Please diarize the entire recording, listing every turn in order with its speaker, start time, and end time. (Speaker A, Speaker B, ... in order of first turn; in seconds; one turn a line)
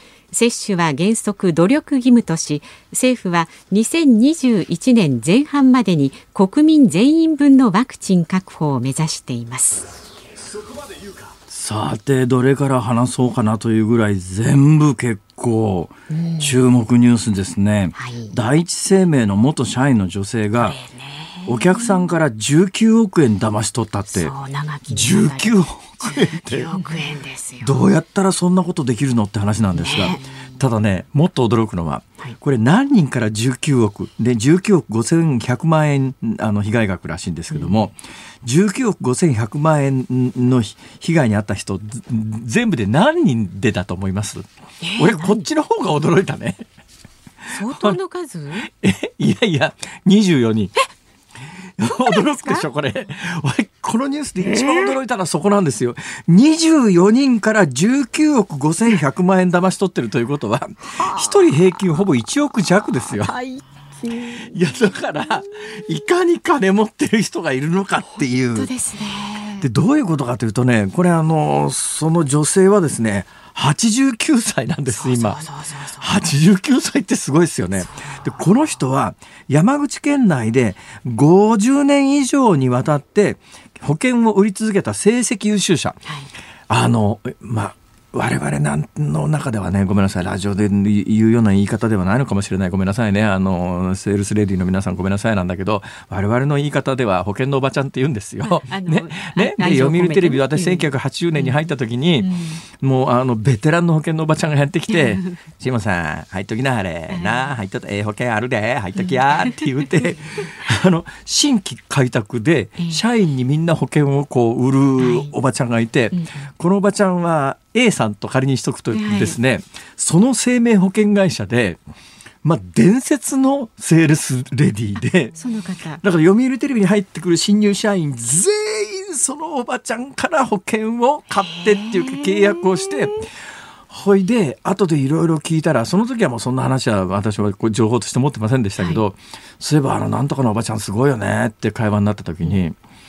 Speaker A: 0.3-9.9
Speaker B: 11.3-20.8
Speaker A: 16.1-16.6
Speaker A: 18.0-18.4
Speaker A: 20.6-22.0
Speaker B: 21.5-24.3
Speaker A: 24.1-27.9
Speaker B: 24.9-26.8
Speaker B: 27.6-46.7
Speaker A: 29.8-30.5
Speaker A: 37.5-37.8
Speaker A: 44.8-45.5
Speaker A: 47.5-48.7
Speaker B: 47.6-48.0
Speaker B: 48.6-50.7
Speaker B: 51.8-63.3
Speaker A: 51.9-52.6
Speaker A: 54.4-54.9
Speaker A: 60.9-61.5
Speaker A: 63.2-64.5
Speaker B: 64.4-68.7
Speaker A: 68.5-69.7
Speaker B: 69.6-75.4
Speaker A: 74.9-76.2
Speaker B: 76.0-86.0
Speaker A: 77.8-78.4
Speaker A: 86.1-86.3
Speaker B: 86.7-121.8
Speaker A: 98.4-101.6
Speaker A: 102.2-102.6
Speaker A: 104.9-105.3
Speaker A: 107.1-107.5
Speaker A: 109.0-109.6
Speaker A: 115.0-115.3
Speaker A: 116.1-116.5
Speaker A: 118.9-119.4
Speaker B: 122.4-125.4
Speaker A: 125.0-126.0
Speaker B: 126.0-133.3
Speaker A: 131.4-133.2
Speaker B: 133.9-142.8